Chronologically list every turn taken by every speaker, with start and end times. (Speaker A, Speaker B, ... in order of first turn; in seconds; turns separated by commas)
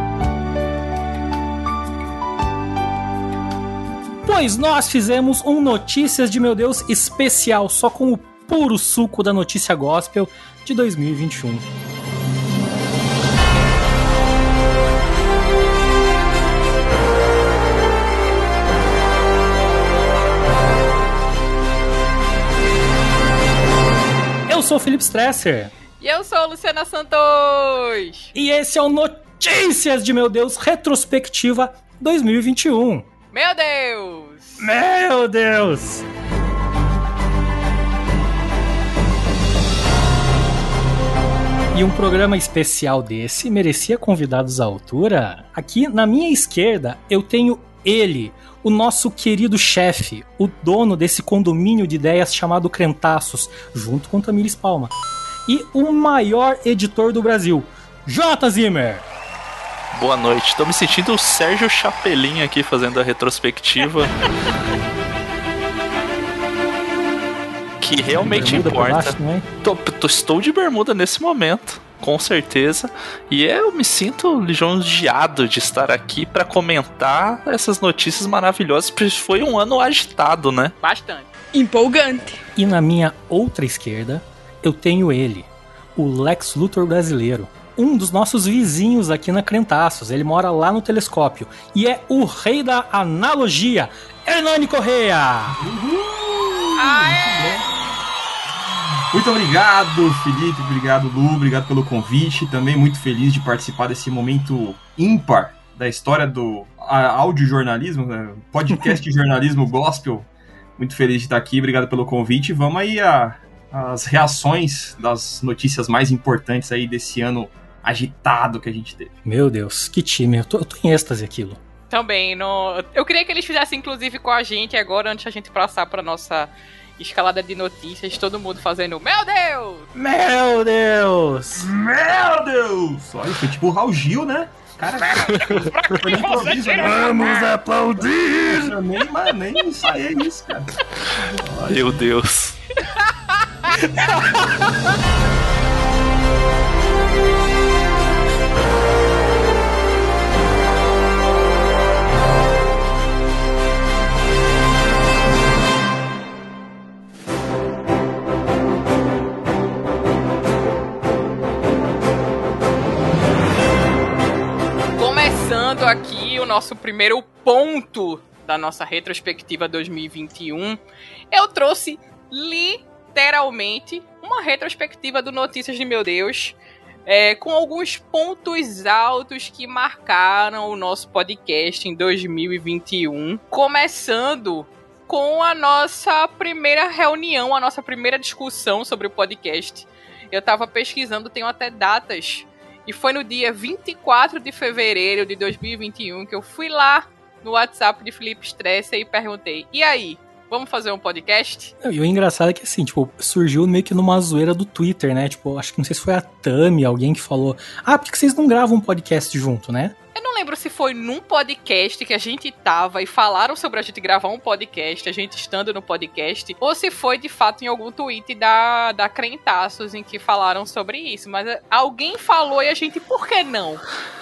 Speaker A: 4.2-11.7, Speaker A: 24.5-25.7, Speaker B: 26.0-28.3, Speaker A: 28.3-33.0, Speaker B: 33.3-34.6, Speaker A: 34.6-36.0, Speaker A: 41.7-54.9, Speaker A: 55.5-59.0, Speaker C: 59.9-64.2, Speaker C: 67.8-80.7, Speaker A: 68.2-69.5, Speaker B: 80.8-81.3, Speaker A: 81.5-95.6, Speaker D: 95.6-97.7, Speaker B: 96.8-97.7, Speaker D: 99.1-119.1, Speaker A: 119.2-121.6, Speaker B: 121.9-129.9, Speaker A: 129.9-131.7, Speaker D: 131.6-142.1, Speaker A: 137.3-138.3, Speaker C: 141.7-142.6, Speaker B: 165.0-201.7, Speaker A: 201.8-209.9, Speaker B: 210.1-223.8